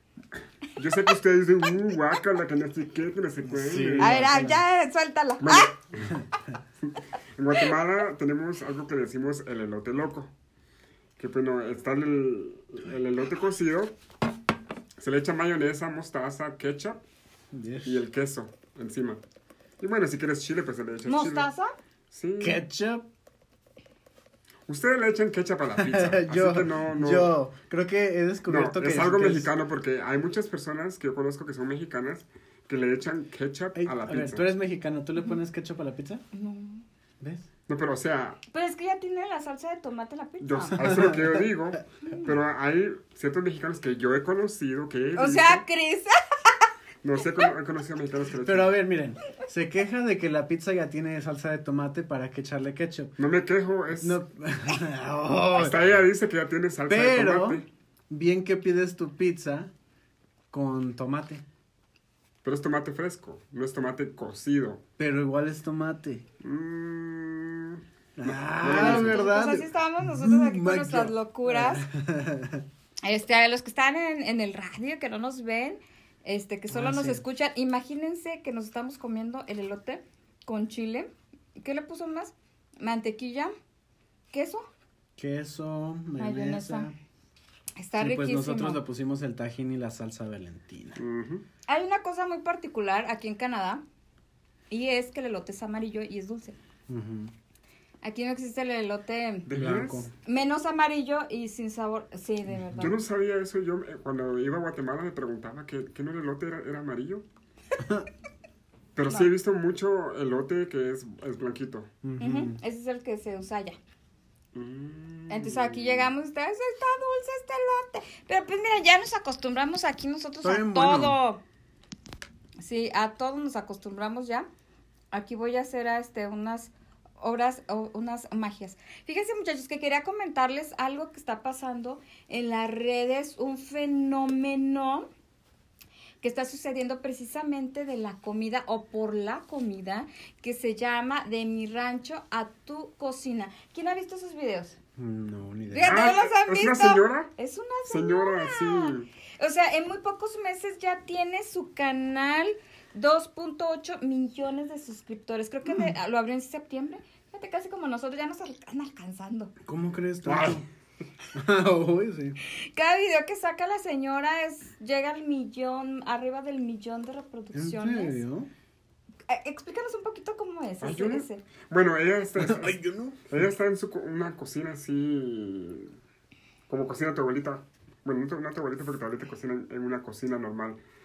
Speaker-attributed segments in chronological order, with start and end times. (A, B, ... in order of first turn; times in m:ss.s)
0:00.7-0:04.3 A
0:03.5-0:04.6 B
0:04.0-0:05.7 C
0:05.4-0:06.1 A
0:06.8-0:10.3 A
0:11.2-0:14.0 A
0:15.0-0:17.0 A
0:17.5-0:18.0 B
0:17.8-0:19.2 A
0:19.8-0:21.5 A
0:21.0-0:21.7 C
0:22.1-0:22.6 A
0:22.4-0:23.0 B
0:24.7-0:27.3 A
0:25.8-0:29.5 B
0:28.4-0:34.4 A
0:33.8-0:36.2 B
0:36.3-0:36.8 C
0:37.2-0:37.4 B
0:37.7-0:38.4 A
0:38.5-0:40.8 C
0:40.4-0:45.6 A
0:40.7-0:41.4 B
0:45.2-0:46.2 C
0:47.0-0:48.8 A
0:48.4-0:53.2 B
0:53.2-0:54.2 A
0:54.0-0:55.8 B
0:55.5-0:57.7 A
0:56.9-0:59.7 B
1:00.5-1:01.4 B
1:02.4-1:04.8 A
1:05.0-1:06.2 B
1:06.4-1:09.2 A
1:08.2-1:12.6 B
1:08.6-1:11.8 C
1:13.0-1:23.5 C
1:16.7-1:17.2 B
1:24.3-1:24.7 C
1:25.2-1:26.9 B
1:26.2-1:26.9 C
1:27.8-1:28.8 C
1:28.0-1:31.0 B
1:31.0-1:31.4 A
1:31.7-1:33.8 C
1:34.7-1:36.6 C
1:36.9-1:37.3 B
1:38.0-1:39.5 C
1:39.4-1:40.1 A
1:39.5-1:40.1 B
1:40.2-1:43.0 C
1:42.8-1:47.2 A
1:47.8-1:48.1 B
1:48.9-1:51.9 A
1:52.0-1:52.6 B
1:52.2-1:53.8 C
1:54.5-1:56.1 A
1:55.3-2:01.4 C
2:00.4-2:01.2 B
2:02.6-2:04.5 C
2:05.1-2:15.1 C
2:16.2-2:24.8 C
2:25.0-2:26.0 B
2:25.7-2:39.5 C
2:25.8-2:27.3 A
2:27.8-2:29.1 A
2:39.6-2:40.6 B
2:40.2-2:40.6 A
2:41.3-2:42.4 B
2:42.7-2:48.2 C
2:47.5-2:48.5 B
2:49.3-2:51.4 C
2:50.8-2:52.8 A
2:52.4-2:53.1 B
2:53.3-2:55.9 A
2:56.7-3:00.8 A